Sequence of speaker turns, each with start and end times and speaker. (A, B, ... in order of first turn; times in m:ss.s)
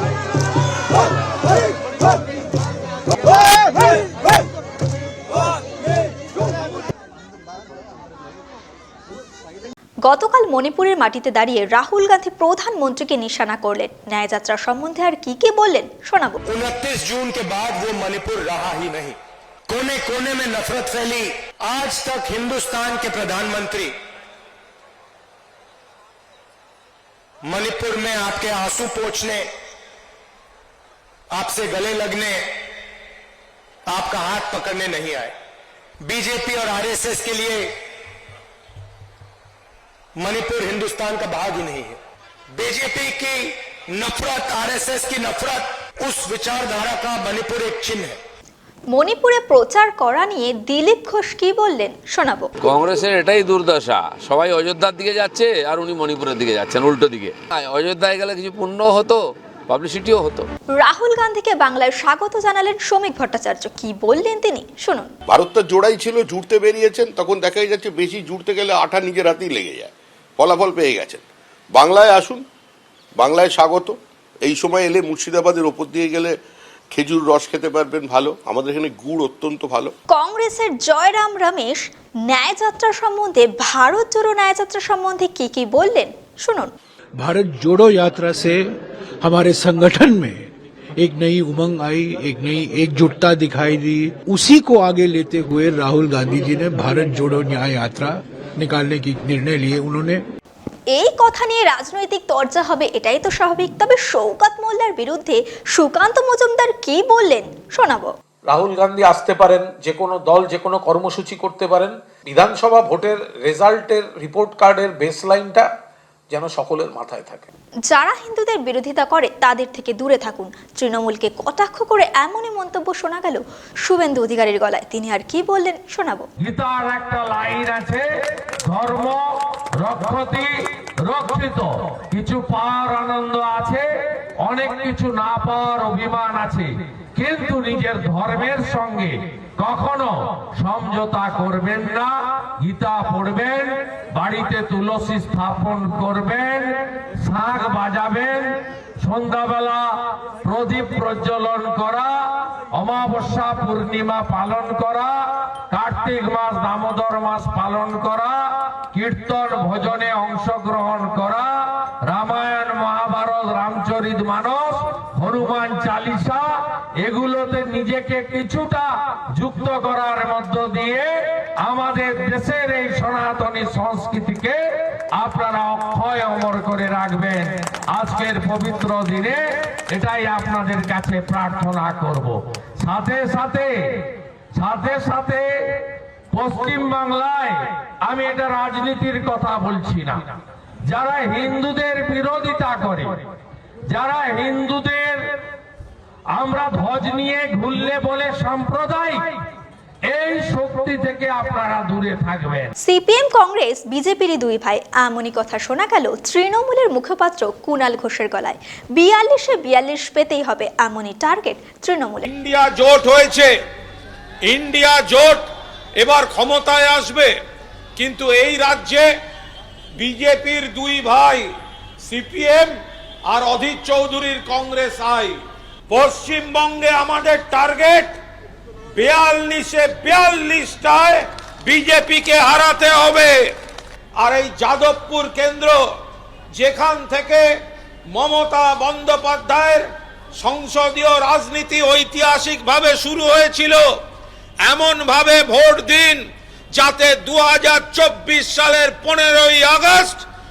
0:10.0-0:16.4 A
0:16.5-0:19.2 B
0:19.7-0:21.2 B
0:21.7-0:23.9 B
0:27.5-0:29.4 B
0:31.4-0:32.3 B
0:33.9-0:35.3 B
0:36.1-0:37.6 B
0:40.2-0:42.0 B
0:42.7-0:43.2 B
0:44.0-0:48.1 B
0:48.9-0:52.5 A
0:52.6-1:00.5 C
1:00.8-1:05.1 A
1:05.3-1:12.4 D
1:13.2-1:16.3 D
1:16.9-1:19.9 D
1:20.1-1:26.7 A
1:27.2-1:28.6 E
1:29.2-1:30.4 E
1:31.0-1:40.2 E
1:40.9-1:48.1 A
1:48.5-1:55.6 F
1:56.3-1:57.5 F
1:57.9-2:06.3 A
2:06.4-2:08.0 G
2:08.6-2:13.8 G
2:14.4-3:10.2 G
3:10.8-3:13.2 G
3:13.9-3:15.4 G
3:16.3-3:19.3 G
3:20.1-3:22.7 G
3:22.8-3:32.3 A
3:32.2-3:33.5 H
3:34.4-3:35.5 H
3:36.0-3:37.3 H
3:38.0-3:39.1 H
3:40.0-3:41.5 H
3:42.0-3:42.7 H
3:43.3-3:48.2 H
3:48.9-3:53.5 H
3:54.1-3:55.8 H
3:56.5-3:57.5 H
3:58.1-4:04.0 H
4:04.6-4:10.2 H